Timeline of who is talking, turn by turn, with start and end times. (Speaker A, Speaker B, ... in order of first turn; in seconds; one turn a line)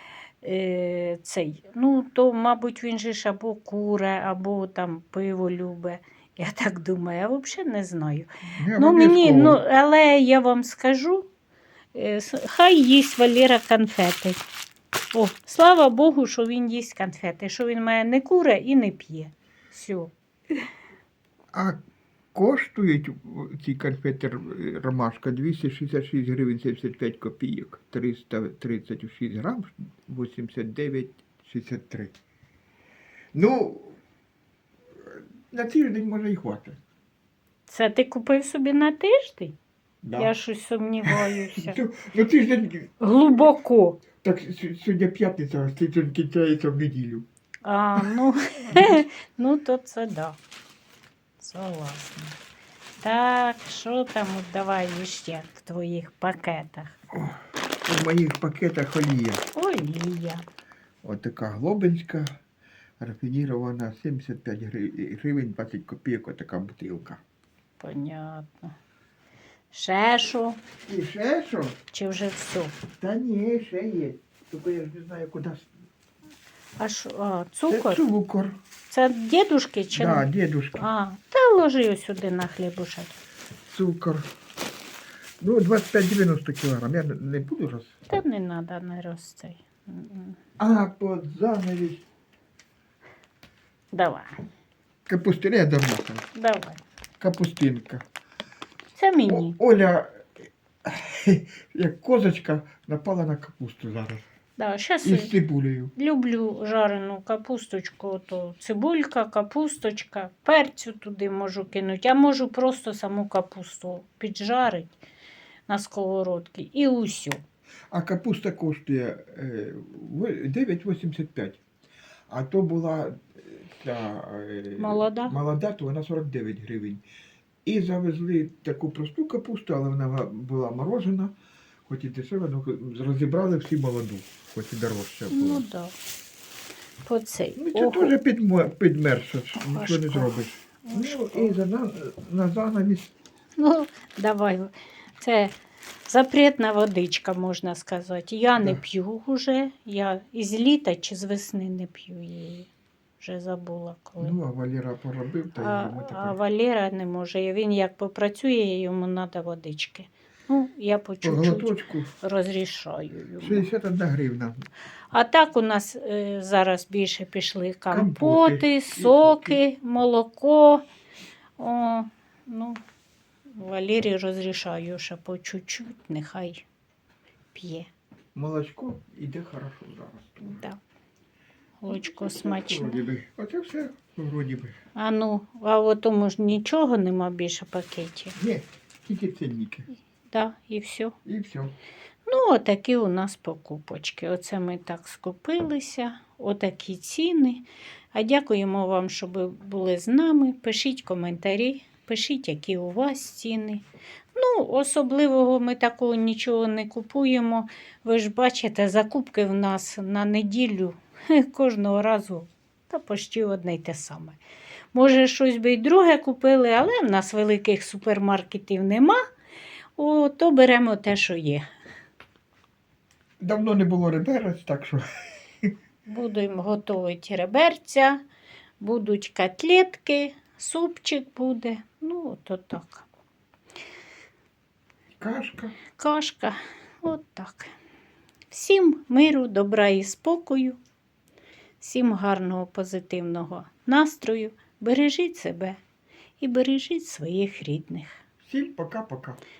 Speaker A: 0.4-11.3
Speaker B: 8.6-9.6
Speaker A: 11.9-14.4
Speaker A: 15.1-20.1
Speaker B: 21.5-21.8
Speaker B: 22.3-32.1
Speaker B: 33.3-34.0
Speaker B: 35.0-36.8
Speaker A: 37.7-39.5
Speaker B: 40.0-40.3
Speaker A: 40.2-41.8
Speaker B: 41.1-43.5
Speaker A: 43.0-44.0
Speaker B: 44.2-47.3
Speaker A: 47.6-50.4
Speaker A: 51.4-52.4
Speaker A: 53.0-57.0
Speaker B: 57.1-59.4
Speaker A: 59.5-60.4
Speaker B: 61.0-62.4
Speaker B: 63.0-67.2
Speaker A: 67.8-68.8
Speaker A: 69.7-70.6
Speaker B: 70.8-71.8
Speaker A: 71.9-72.8
Speaker B: 73.0-75.7
Speaker A: 76.8-78.0
Speaker B: 77.7-78.6
Speaker A: 78.9-83.2
Speaker B: 79.9-80.9
Speaker B: 83.7-84.3
Speaker B: 85.4-88.0
Speaker A: 88.1-90.4
Speaker B: 90.6-92.0
Speaker A: 93.9-94.4
Speaker B: 95.1-96.2
Speaker A: 96.3-96.8
Speaker B: 97.2-98.0
Speaker A: 99.0-99.6
Speaker B: 99.3-100.3
Speaker B: 100.8-104.3
Speaker A: 104.6-105.3
Speaker B: 105.0-105.9
Speaker A: 106.0-115.0
Speaker A: 115.7-117.4
Speaker B: 117.9-121.6
Speaker B: 122.3-127.0
Speaker A: 124.8-125.3
Speaker B: 127.7-131.3
Speaker B: 131.9-135.7
Speaker A: 135.3-135.9
Speaker A: 137.1-138.1
Speaker B: 137.6-143.1
Speaker A: 139.6-141.6
Speaker A: 143.6-145.6
Speaker A: 146.1-152.7
Speaker B: 148.6-148.8
Speaker A: 153.2-154.4
Speaker B: 154.2-156.4
Speaker A: 155.6-163.7
Speaker B: 161.2-162.1
Speaker B: 163.4-164.7
Speaker A: 165.1-170.8
Speaker B: 167.9-169.6
Speaker A: 171.6-172.8
Speaker A: 173.6-176.6
Speaker A: 177.6-177.9
Speaker B: 178.3-180.7
Speaker A: 180.4-180.8
Speaker A: 181.8-183.0
Speaker B: 181.9-184.8
Speaker A: 185.0-188.3
Speaker B: 188.4-189.9
Speaker A: 190.3-191.2
Speaker B: 191.3-191.7
Speaker A: 192.3-214.4
Speaker A: 214.9-219.2
Speaker A: 220.0-221.6
Speaker B: 223.4-225.0
Speaker A: 226.1-228.2
Speaker A: 228.8-233.1
Speaker B: 235.2-235.8
Speaker A: 236.0-237.7
Speaker A: 238.5-240.8
Speaker A: 241.8-245.8
Speaker A: 246.4-248.2
Speaker B: 248.4-249.4